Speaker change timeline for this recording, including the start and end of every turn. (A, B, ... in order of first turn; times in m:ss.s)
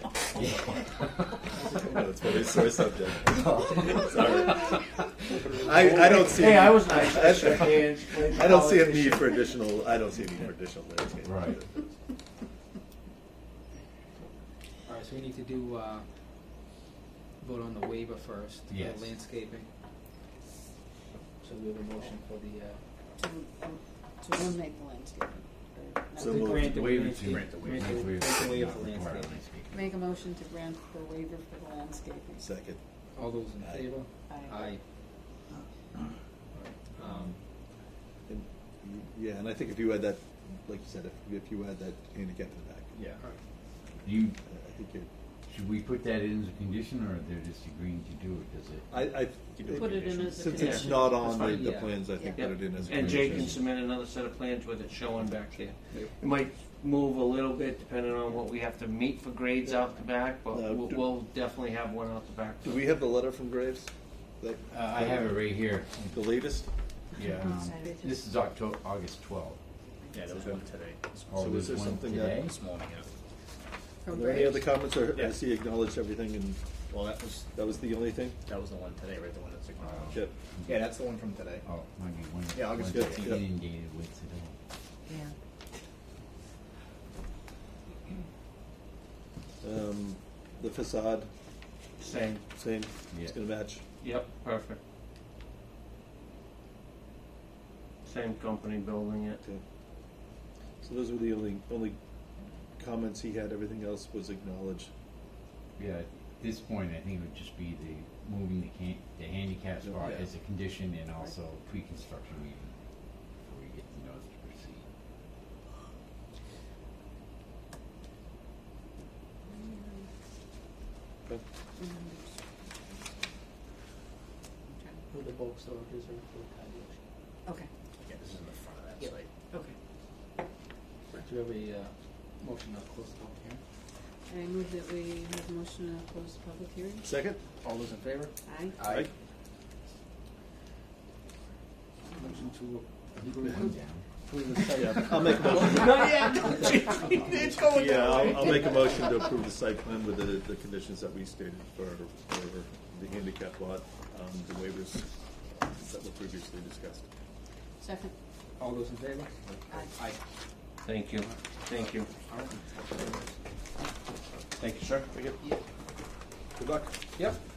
0:00.3-0:01.4 A
0:01.6-0:02.1 B
0:01.8-0:11.7 C
0:03.3-0:03.7 A
0:05.6-0:06.0 B
0:05.6-0:09.4 D
0:11.2-0:11.6 A
0:14.9-0:16.1 B
0:17.4-0:19.7 B
0:18.7-0:19.1 A
0:21.4-0:22.8 B
0:23.2-0:26.6 E
0:26.2-0:29.4 B
0:26.2-0:26.8 C
0:26.7-0:29.9 A
0:26.9-0:28.1 F
0:29.7-0:32.5 E
0:32.4-0:32.8 C
0:33.2-0:34.8 B
0:33.6-0:34.0 C
0:34.3-0:34.7 E
0:36.6-0:37.4 B
0:38.3-0:43.0 C
0:43.0-0:43.2 F
0:44.0-0:44.4 A
0:44.5-0:45.1 C
0:45.5-0:48.9 A
0:48.9-0:53.6 C
0:49.6-0:50.8 F
0:49.7-0:51.4 E
0:50.6-1:02.8 D
0:51.4-0:52.0 B
0:52.2-0:52.5 E
0:52.6-0:53.6 A
1:00.5-1:01.1 C
1:02.6-1:05.4 C
1:04.7-1:06.1 A
1:06.0-1:06.7 C
1:07.2-1:09.6 A
1:07.4-1:08.2 E
1:10.0-1:10.4 E
1:10.1-1:11.6 F
1:10.4-1:10.6 C
1:11.3-1:12.5 A
1:11.3-1:12.4 C
1:12.3-1:13.1 F
1:14.0-1:14.7 E
1:14.1-1:16.6 C
1:16.9-1:17.6 F
1:17.5-1:18.4 C
1:18.4-1:21.7 F
1:19.8-1:20.8 A
1:21.6-1:24.6 A
1:22.5-1:23.4 F
1:22.9-1:23.4 C
1:29.6-1:31.3 C
1:32.0-1:32.4 D
1:32.6-1:33.8 C
1:34.0-1:34.8 D
1:38.0-1:39.4 D
1:40.8-1:42.0 C
1:42.8-1:44.9 C
1:45.8-1:52.7 A
1:49.8-1:50.3 C
1:53.4-1:54.8 A
1:59.4-2:00.1 E
2:01.8-2:03.3 E
2:04.7-2:05.0 E
2:05.1-2:07.0 B
2:08.0-2:09.3 F
2:11.2-2:13.6 B
2:14.3-2:17.1 E
2:17.0-2:17.5 C
2:17.6-2:19.1 B
2:18.4-2:18.8 E
2:22.1-2:23.7 B
2:23.2-2:24.0 A
2:24.3-2:27.7 B
2:24.8-2:26.1 C
2:25.5-2:27.2 D
2:26.0-2:29.1 F
2:27.7-2:37.1 C
2:37.8-2:38.1 E
2:38.6-2:40.2 B
2:39.7-2:40.0 E
2:40.8-2:42.1 D
2:42.1-2:43.3 B
2:44.6-2:45.1 D
2:45.1-2:45.4 C
2:46.6-2:47.0 C